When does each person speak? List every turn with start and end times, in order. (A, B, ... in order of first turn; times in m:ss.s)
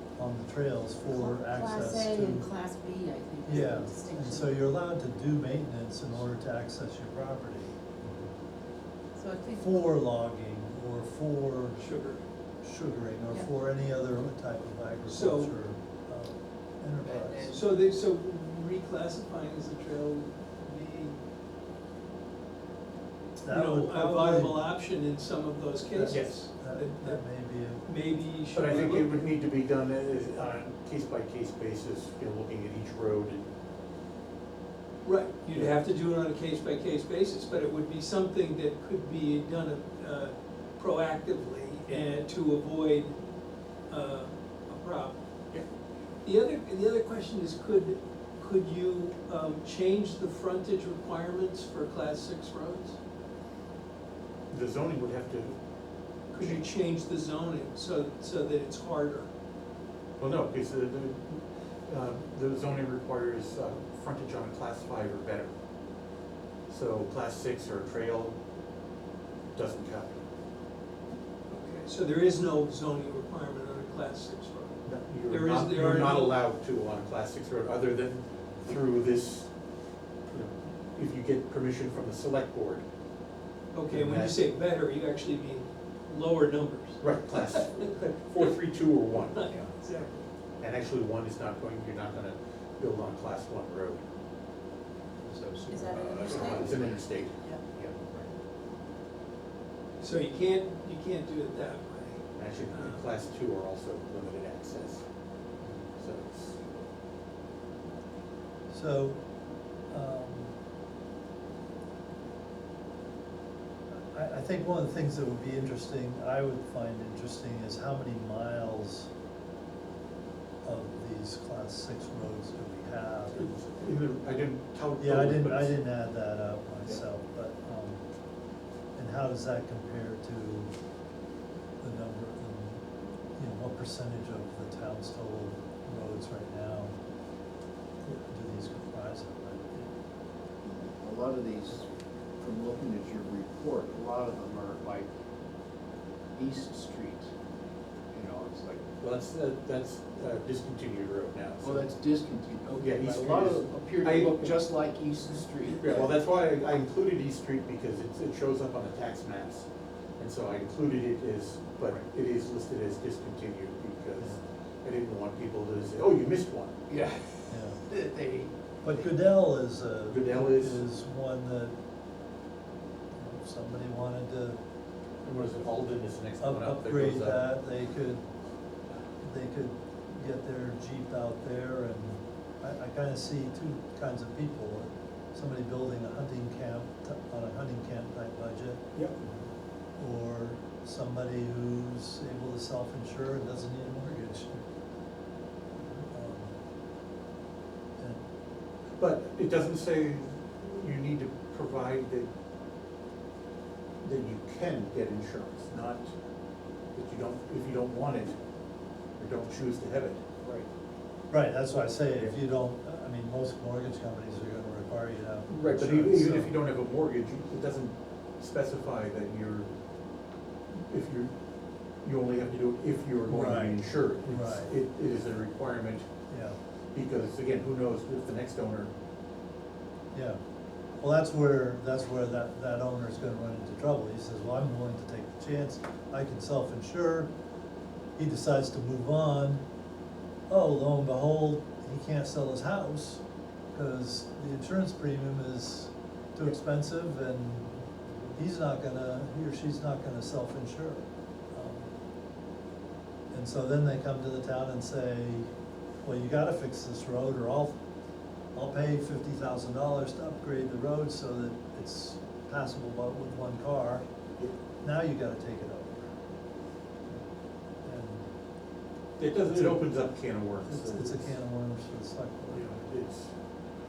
0:00.2-0:02.5 A
0:01.1-0:04.6 B
0:03.4-0:07.8 A
0:09.2-0:09.8 B
0:09.6-0:11.9 A
0:11.8-0:12.2 C
0:12.6-0:17.6 A
0:15.1-0:15.6 C
0:17.0-0:17.6 D
0:17.5-0:21.2 C
0:23.4-0:24.6 A
0:23.5-0:29.2 C
0:25.9-0:29.0 A
0:26.1-0:26.4 E
0:28.5-0:33.5 E
0:35.0-0:43.2 C
0:43.9-0:45.2 C
0:46.2-0:53.0 C
0:54.5-0:55.6 E
0:56.3-0:59.3 C
0:56.3-0:56.6 E
1:00.2-1:05.5 E
1:06.7-1:08.4 E
1:09.5-1:10.2 E
1:11.5-1:16.4 C
1:14.8-1:19.5 E
1:20.3-1:22.8 E
1:23.7-1:27.9 C
1:23.9-1:24.4 E
1:27.0-1:29.6 E
1:29.3-1:30.2 C
1:30.6-1:34.0 E
1:35.2-1:37.0 D
1:35.7-1:36.7 B
1:36.3-1:37.4 E
1:37.7-1:38.3 D
1:40.0-1:43.0 C
1:42.4-1:45.0 E
1:45.9-1:46.8 E
1:48.7-1:49.2 A
1:49.9-1:50.5 A
1:53.9-1:59.1 A
2:00.6-2:03.5 A
2:03.3-2:05.8 E
2:05.0-2:08.0 A
2:09.0-2:10.7 A
2:11.8-2:17.0 A
2:18.2-2:19.9 A
2:20.7-2:21.9 D
2:22.4-2:25.1 D
2:26.4-2:27.3 D
2:28.1-2:28.8 D
2:29.0-2:31.9 E
2:31.6-2:36.1 D
2:32.7-2:34.6 E
2:35.7-2:39.7 E
2:40.2-2:46.8 E
2:46.9-2:48.6 D
2:47.5-2:47.8 A
2:48.8-2:51.8 A
2:50.1-2:50.8 E
2:53.2-2:54.6 A
2:55.2-2:57.5 E
2:56.4-2:58.3 A
2:59.2-3:08.9 A
3:09.0-3:09.2 E
3:10.0-3:14.7 A
3:16.1-3:16.6 A
3:18.0-3:18.3 A
3:19.0-3:22.3 E
3:24.0-3:26.1 E
3:27.0-3:28.4 E
3:29.2-3:30.2 E
3:31.3-3:36.6 A
3:35.5-3:39.7 E
3:40.9-3:41.3 E
3:42.0-3:46.1 E
3:43.3-3:44.8 A
3:46.3-3:46.6 A
3:46.9-3:48.9 E
3:50.1-3:50.4 A
3:51.0-3:57.3 A
3:58.2-3:59.6 A
4:00.5-4:03.2 A
4:03.7-4:07.8 A
4:08.3-4:11.9 A
4:13.3-4:15.5 A
4:16.0-4:17.8 A
4:18.5-4:24.0 A
4:24.8-4:26.1 A
4:27.8-4:28.3 A
4:29.2-4:31.4 E
4:29.5-4:29.9 A
4:30.6-4:32.7 A
4:32.5-4:33.3 E